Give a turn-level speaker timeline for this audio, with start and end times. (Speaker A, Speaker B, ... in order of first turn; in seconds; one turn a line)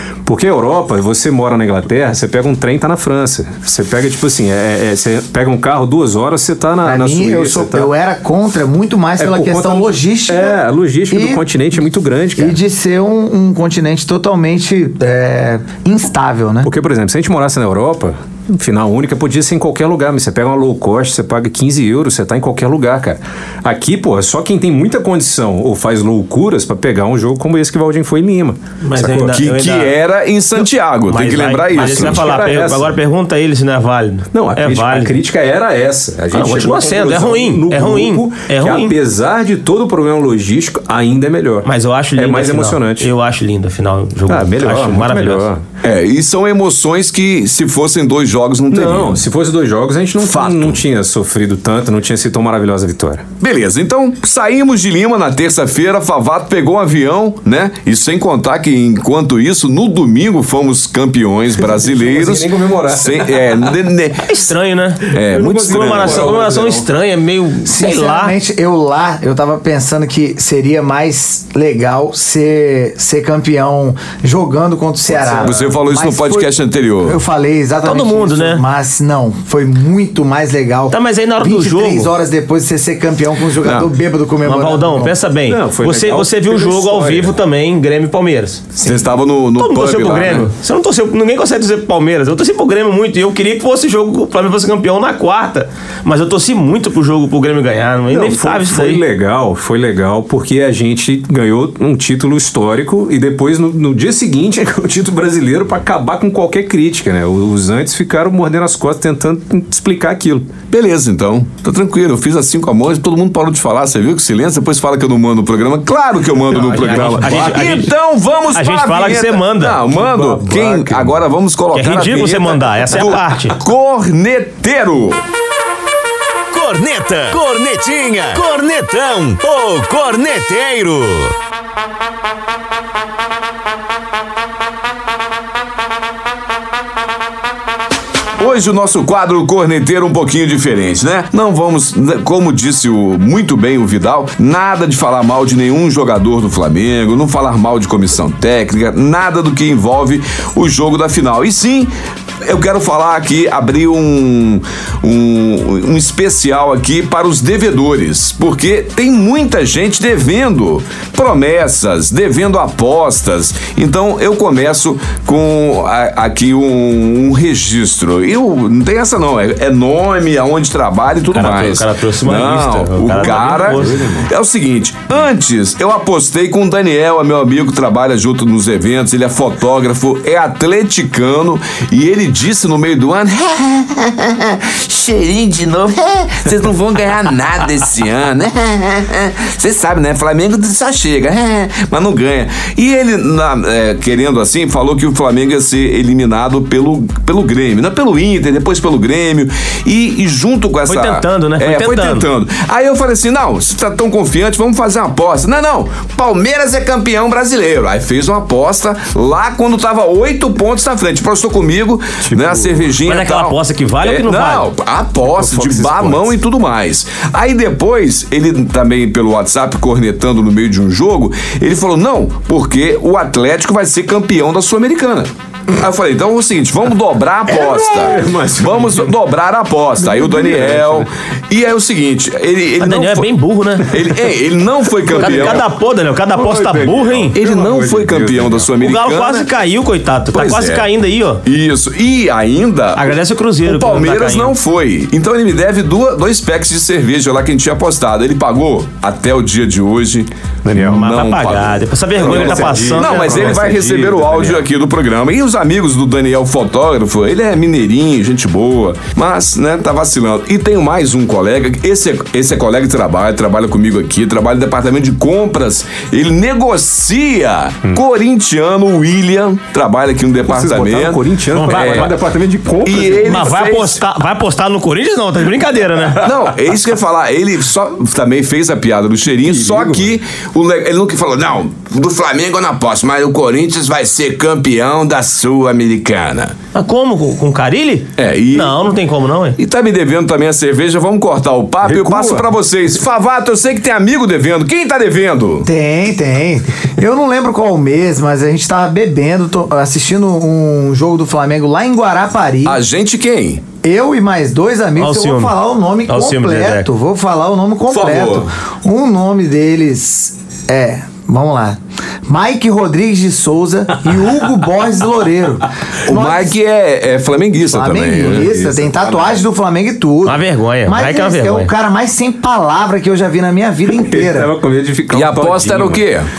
Speaker A: 0.3-7.9
Speaker B: 6.8-10.6
Speaker A: 9.2-12.6
Speaker B: 11.1-11.4
Speaker B: 12.4-16.7
Speaker A: 16.6-29.4
Speaker C: 28.8-29.9
Speaker D: 29.3-32.3
Speaker C: 31.1-35.2
Speaker A: 31.7-33.0
Speaker A: 34.3-43.1
Speaker C: 36.3-39.0
Speaker C: 41.6-45.5
Speaker A: 44.3-45.6
Speaker D: 45.8-49.2
Speaker A: 48.7-53.2
Speaker D: 50.2-50.8
Speaker D: 53.4-64.5
Speaker A: 61.6-63.7
Speaker C: 64.3-68.4
Speaker D: 65.1-66.4
Speaker A: 65.2-66.9
Speaker B: 67.6-76.5
Speaker A: 75.1-75.7
Speaker D: 75.4-77.2
Speaker B: 77.0-85.2
Speaker C: 77.8-78.6
Speaker C: 80.9-82.1
Speaker D: 83.6-83.9
Speaker C: 84.4-88.8
Speaker A: 85.5-87.4
Speaker D: 88.8-90.5
Speaker C: 89.6-99.0
Speaker A: 98.1-110.5
Speaker D: 110.7-125.2
Speaker C: 116.5-117.9
Speaker A: 116.6-117.8
Speaker C: 118.5-119.8
Speaker A: 119.9-121.2
Speaker C: 121.7-123.6
Speaker E: 126.5-131.3
Speaker D: 138.4-151.9
Speaker D: 152.4-233.3
Speaker C: 171.3-174.0
Speaker A: 173.1-174.3
Speaker C: 200.9-202.3
Speaker A: 212.2-212.9
Speaker C: 213.0-214.7
Speaker A: 215.2-216.3
Speaker A: 227.5-229.2
Speaker A: 230.0-231.1
Speaker C: 232.8-233.9
Speaker D: 233.9-235.6
Speaker A: 235.1-235.7
Speaker C: 235.2-237.3
Speaker A: 236.3-238.8
Speaker D: 237.3-239.5
Speaker C: 238.8-241.4
Speaker D: 240.3-240.9
Speaker D: 241.4-272.1
Speaker C: 242.9-244.6
Speaker A: 250.6-251.2
Speaker C: 250.8-253.7
Speaker A: 252.2-254.7
Speaker A: 270.5-273.5
Speaker C: 271.5-272.2
Speaker D: 272.8-274.0
Speaker C: 273.2-276.4
Speaker D: 276.2-286.6
Speaker A: 279.5-280.2
Speaker C: 286.7-289.6
Speaker D: 288.2-288.8
Speaker D: 289.6-295.7
Speaker A: 291.8-292.5
Speaker B: 295.6-302.8
Speaker D: 302.6-303.6
Speaker B: 303.8-316.5
Speaker C: 305.0-305.6
Speaker C: 306.1-306.9
Speaker D: 307.9-308.5
Speaker D: 316.1-319.0
Speaker B: 317.6-324.5
Speaker A: 318.2-319.1
Speaker C: 320.2-321.7
Speaker A: 323.9-326.0
Speaker D: 325.1-326.3